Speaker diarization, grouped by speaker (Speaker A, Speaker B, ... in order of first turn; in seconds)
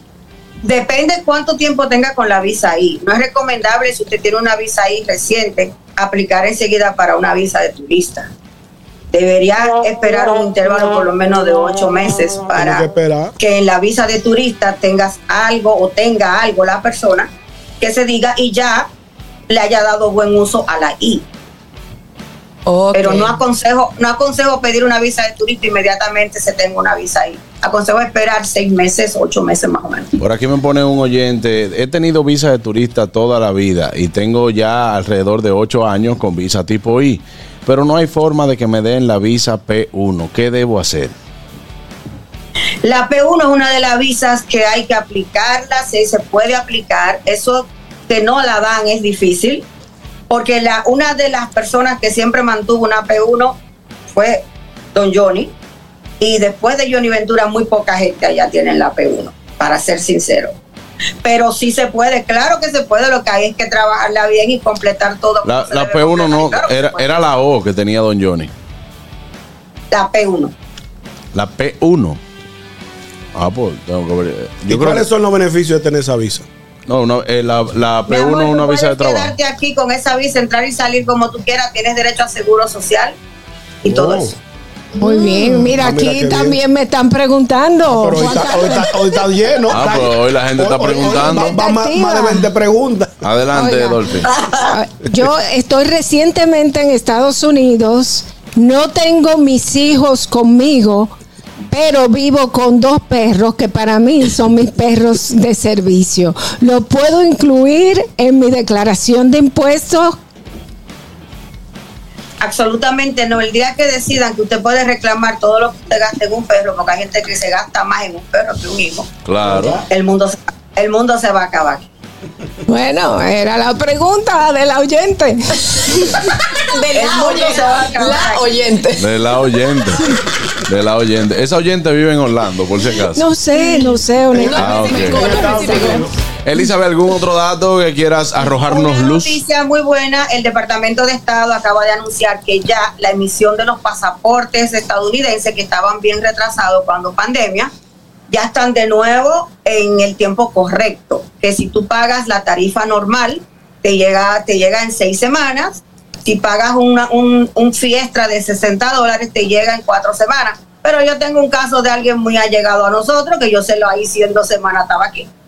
Speaker A: 0.6-8.3, 9.1-12.8, 13.4-17.3, 17.8-18.9, 19.5-21.2, 22.9-30.1, 42.8-49.6, 50.3-53.6, 54.1-54.4, 54.9-55.5, 56.2-60.5, 61.2-67.1, 69.9-70.5, 78.1-83.1, 83.8-84.3, 94.2-94.6, 112.4-119.1, 119.9-121.8, 126.9-128.6, 138.7-147.7, 148.3-165.3
Speaker B: 12.5-13.3, 74.7-76.4, 83.9-84.3, 85.7-86.6, 87.9-93.2, 135.0-136.1
Speaker C: 22.6-23.4, 85.0-85.6, 126.7-129.0, 133.6-136.1
Speaker D: 30.2-41.1, 65.4-68.5, 71.3-72.2, 73.3-75.0, 76.9-79.3, 89.7-91.5, 93.2-94.3, 119.2-119.8, 129.0-130.1, 130.7-133.2, 134.6-135.3, 136.4-139.4
Speaker E: 85.0-89.2, 91.0-92.5, 93.5-101.1, 101.7-110.2, 122.7-126.1, 133.1-136.1